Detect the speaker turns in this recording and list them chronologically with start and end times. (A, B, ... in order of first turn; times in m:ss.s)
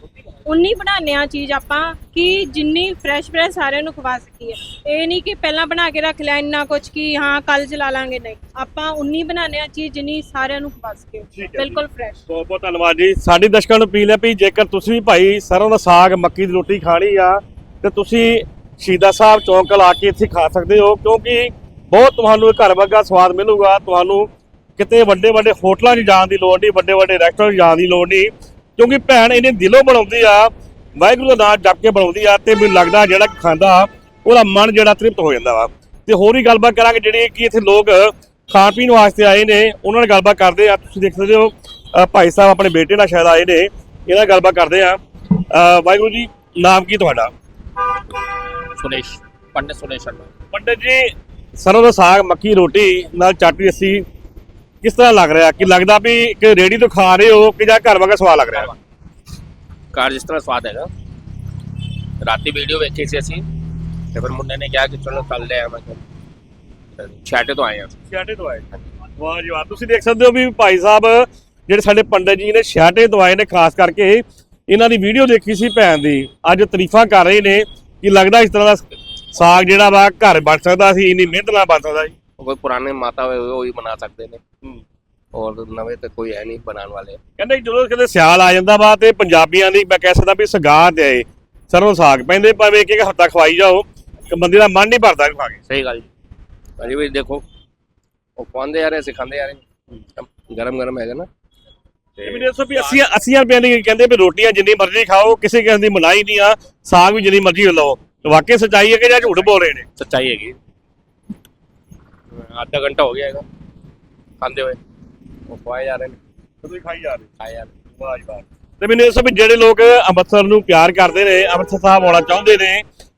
0:00.4-0:12.2 A
0:11.3-0:45.0 B
0:45.5-0:47.3 B
0:48.7-0:50.3 C
0:50.5-0:54.0 B
0:54.8-0:58.7 B
0:59.9-1:00.9 C
1:02.2-1:03.5 C
1:04.1-1:06.0 C
1:07.0-1:07.9 C
1:08.1-1:22.1 B
1:22.4-1:24.4 C
1:25.3-1:27.2 C
1:27.4-1:35.6 B
1:35.7-1:36.1 C
1:36.8-1:37.4 C
1:38.4-1:39.6 C
1:40.2-1:41.3 C
1:42.2-1:43.0 C
1:42.2-1:49.9 B
1:50.0-1:50.6 C
1:52.3-1:53.4 C
1:54.4-1:54.8 C
1:55.5-1:56.2 C
1:56.6-1:57.3 B
1:57.4-1:57.7 C
1:57.9-2:02.8 B